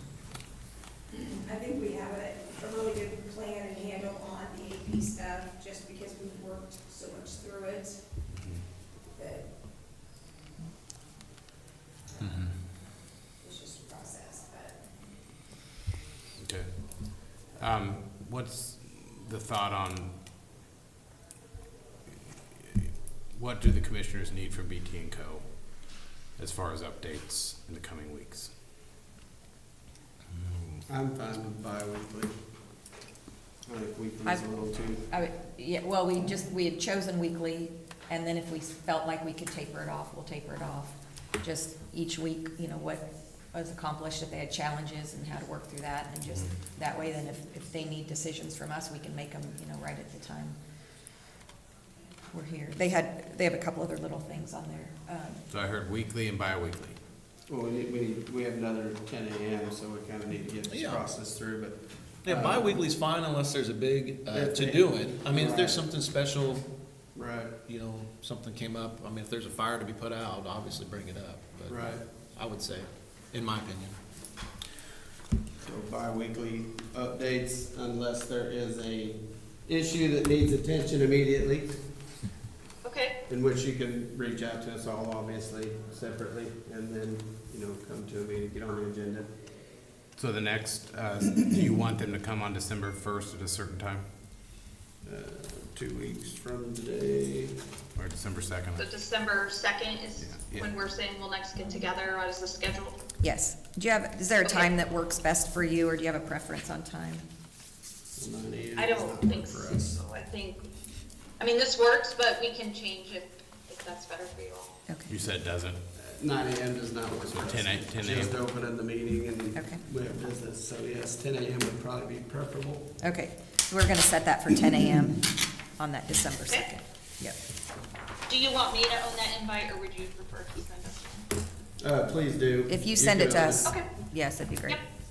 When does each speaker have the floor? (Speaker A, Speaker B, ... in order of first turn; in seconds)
Speaker A: 1.1-8.0, 9.1-9.5, 12.1-12.6, 13.4-14.8
Speaker B: 8.3-8.6, 16.4-20.1, 22.6-25.5, 26.4-28.5, 30.4-30.8, 55.5-57.0, 90.2-94.0, 98.0-98.9, 100.2-100.7, 115.1-115.8, 117.3-118.4
Speaker C: 12.2-12.5, 60.7-61.0, 62.2-66.7, 67.7-74.0
Speaker D: 30.9-32.3, 33.6-35.0, 57.5-62.8, 64.3-65.9, 67.2-67.6, 71.7-72.0, 75.6-81.8, 83.3-89.3, 95.0-97.6, 108.2-109.9, 116.0-122.9, 131.8-133.8
Speaker E: 34.2-34.5, 35.1-50.6, 52.3-55.4, 103.2-107.2, 114.9-115.2, 119.5-119.8, 123.0-127.4, 132.7-134.8
Speaker F: 82.8-83.1, 98.8-103.0, 104.4-104.7, 108.8-110.6, 111.4-114.8, 128.3-131.0